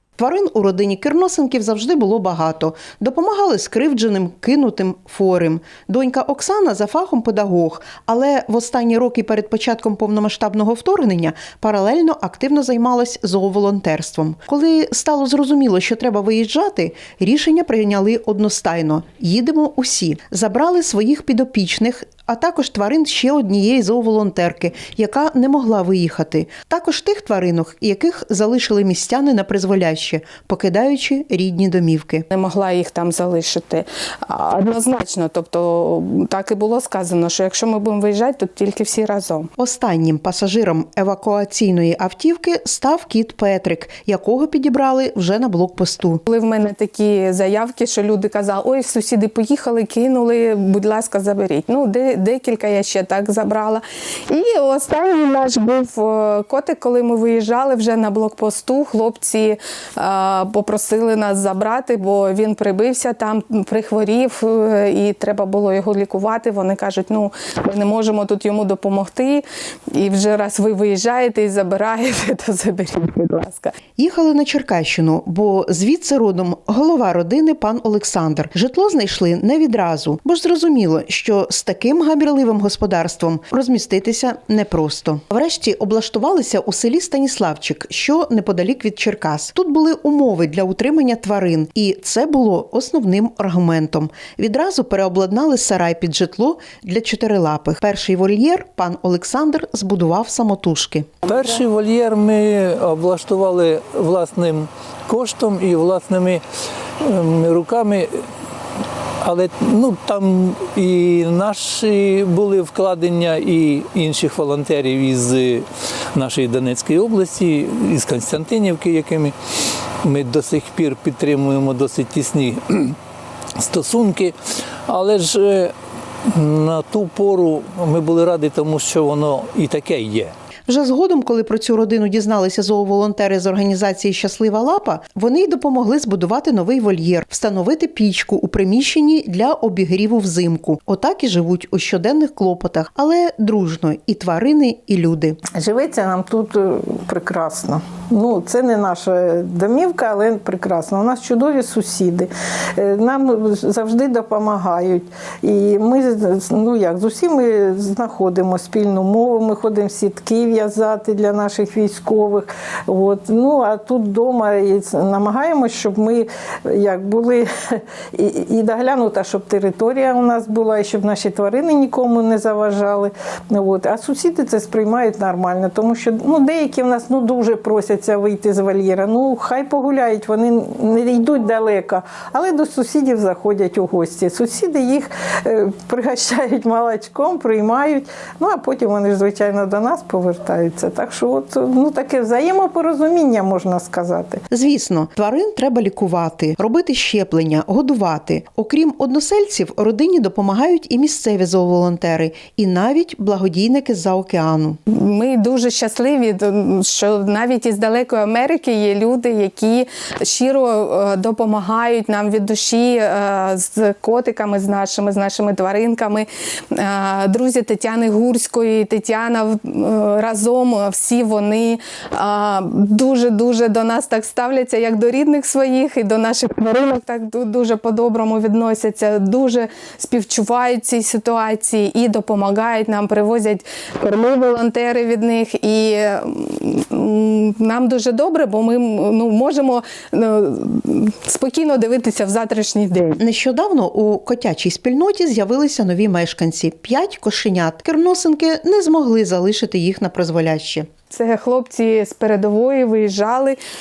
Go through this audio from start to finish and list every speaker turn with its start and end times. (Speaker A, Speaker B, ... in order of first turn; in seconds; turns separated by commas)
Speaker A: 0.2-32.2, Speaker B: 32.3-39.5, Speaker A: 39.6-46.2, Speaker B: 46.3-73.7, Speaker A: 74.0-101.1, Speaker C: 101.2-106.4, Speaker C: 107.0-108.2, Speaker C: 109.2-119.3, Speaker C: 120.0-123.0, Speaker C: 123.6-124.3, Speaker C: 124.8-130.3, Speaker A: 130.7-145.4, Speaker D: 145.5-194.4, Speaker A: 194.5-204.8, Speaker B: 204.9-243.2, Speaker A: 243.2-250.9, Speaker B: 251.1-253.6